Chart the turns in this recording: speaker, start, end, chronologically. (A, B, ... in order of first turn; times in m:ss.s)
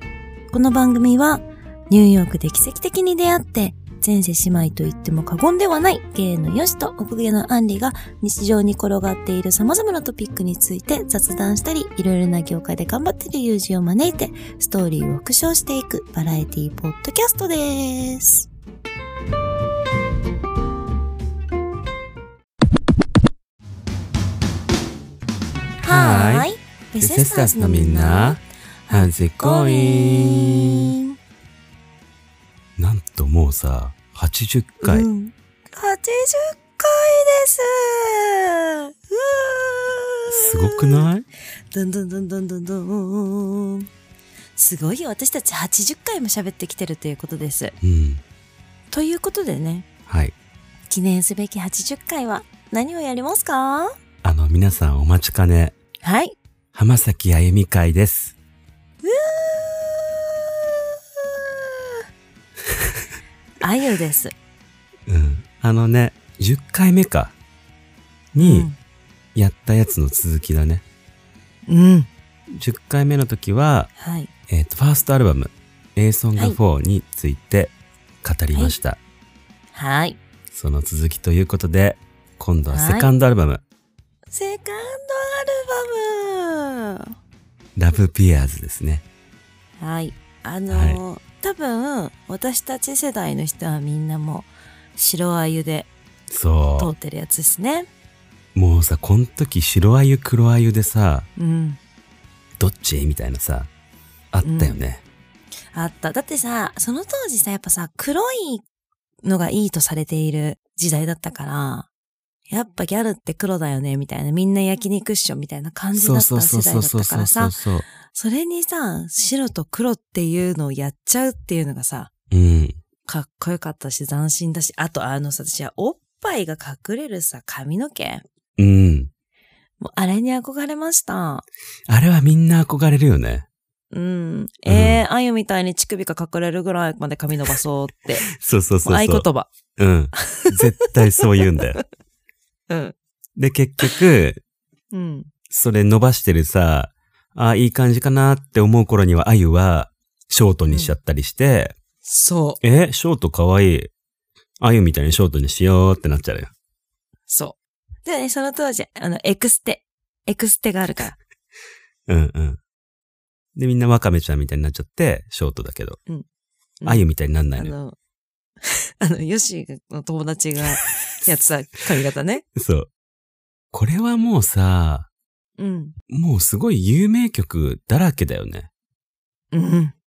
0:00.5-0:18.5 A
0:25.8-0:30.9 A
0:25.9-0:26.5 B
0:27.0-0:28.4 B
0:28.9-0:30.9 B
0:32.8-0:35.1 B
0:34.8-0:41.1 A
0:40.3-0:41.3 B
0:41.7-0:43.9 A
0:44.6-0:47.8 A
0:47.8-0:48.2 B
0:48.9-0:49.9 A
0:50.1-0:50.4 B
0:50.9-0:54.0 A
0:54.2-0:55.8 B
0:56.0-0:56.4 A
0:56.7-0:58.4 B
0:59.0-1:00.2 A
1:01.2-1:01.7 A
1:03.6-1:04.3 A
1:05.1-1:07.4 B
1:08.3-1:08.7 B
1:08.4-1:08.8 A
1:09.4-1:10.8 B
1:11.7-1:12.1 A
1:12.5-1:13.9 B
1:14.0-1:14.3 A
1:14.5-1:19.0 B
1:19.8-1:20.2 A
1:20.5-1:23.6 B
1:22.7-1:23.1 A
1:24.3-1:27.0 A
1:27.8-1:29.0 B
1:29.8-1:35.9 A
1:30.7-1:31.0 B
1:36.3-1:36.9 B
1:36.8-1:37.9 A
1:38.6-1:41.3 B
1:41.4-1:41.8 A
1:42.6-1:43.7 B
1:44.3-1:45.0 B
1:44.4-1:44.8 A
1:45.7-1:48.6 A
1:49.2-1:51.9 A
1:52.5-2:02.1 A
1:56.0-1:57.9 B
2:02.3-2:02.8 B
2:03.1-2:08.2 A
2:08.6-2:09.1 B
2:09.8-2:11.5 A
2:11.9-2:13.5 B
2:13.9-2:18.3 A
2:14.7-2:15.0 B
2:18.3-2:21.8 B
2:18.8-2:19.5 A
2:20.2-2:21.8 A
2:22.7-2:23.0 A
2:23.4-2:24.4 B
2:24.9-2:25.3 A
2:25.5-2:31.8 B
2:30.7-2:31.0 A
2:32.0-2:32.6 A
2:32.6-2:33.9 B
2:34.6-2:36.5 B
2:37.3-2:41.2 A
2:42.1-2:42.6 B
2:43.6-2:46.0 B
2:46.8-2:48.0 A
2:46.8-2:47.7 B
2:48.7-2:52.4 A
2:52.6-2:52.9 B
2:53.7-2:55.1 B
2:55.6-2:56.0 A
2:56.1-2:58.7 B
2:59.5-3:00.0 A